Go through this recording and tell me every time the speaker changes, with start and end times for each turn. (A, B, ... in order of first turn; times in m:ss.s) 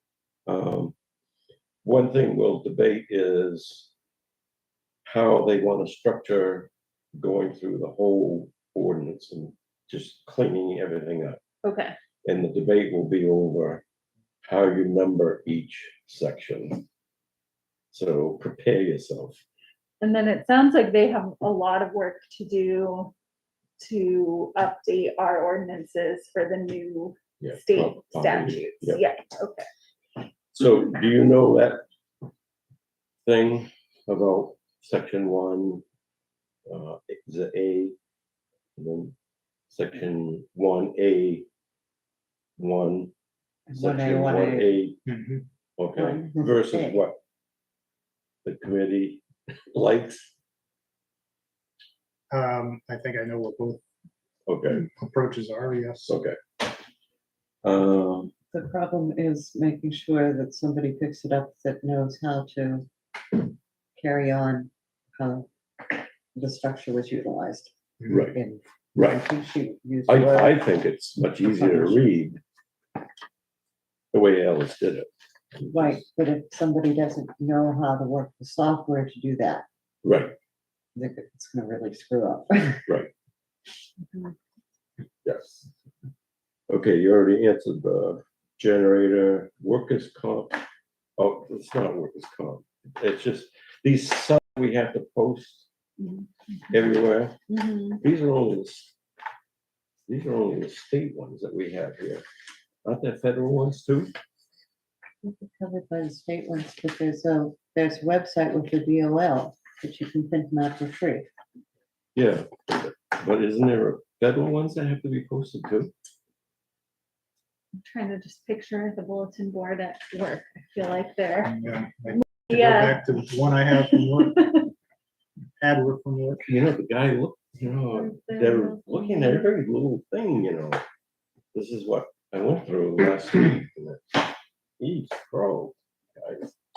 0:00.5-0:01.0 A
0:01.8-0:03.9 A
0:05.0-0:11.4 A
0:11.6-0:12.0 B
0:12.2-0:13.8 A
0:14.4-0:16.8 A
0:17.9-0:19.4 A
0:20.0-0:23.1 B
0:23.8-0:29.7 B
0:27.4-0:29.0 A
0:30.5-0:31.8 A
0:33.3-0:35.8 A
0:36.7-0:38.0 A
0:38.8-0:39.1 A
0:39.7-0:41.5 A
0:42.6-0:43.1 A
0:43.7-0:44.7 C
0:43.7-0:45.0 A
0:45.1-0:45.4 D
0:45.8-0:47.2 A
0:46.0-0:47.0 C
0:48.4-0:50.3 A
0:52.3-0:53.8 D
0:54.5-0:54.9 A
0:54.7-0:56.2 D
0:56.0-0:56.4 A
0:57.6-0:58.3 A
0:58.5-1:03.4 C
1:04.0-1:05.5 C
1:06.4-1:10.7 C
1:08.1-1:08.4 A
1:09.0-1:09.2 A
1:10.1-1:12.4 A
1:11.5-1:12.1 C
1:14.1-1:16.1 A
1:15.7-1:19.6 C
1:20.0-1:20.3 A
1:21.0-1:22.9 C
1:25.2-1:25.7 A
1:26.7-1:30.6 A
1:31.2-1:35.7 A
1:36.0-1:36.3 B
1:36.7-1:37.4 A
1:37.5-1:38.0 C
1:38.0-1:38.9 A
1:40.1-1:42.2 A
1:42.8-1:44.1 A
1:45.2-1:51.3 C
1:52.2-1:55.9 A
1:57.8-2:01.6 B
2:01.4-2:04.4 D
2:02.1-2:04.7 B
2:05.6-2:06.5 D
2:06.4-2:10.8 A
2:07.9-2:09.6 B
2:11.5-2:14.3 A
2:14.8-2:16.6 A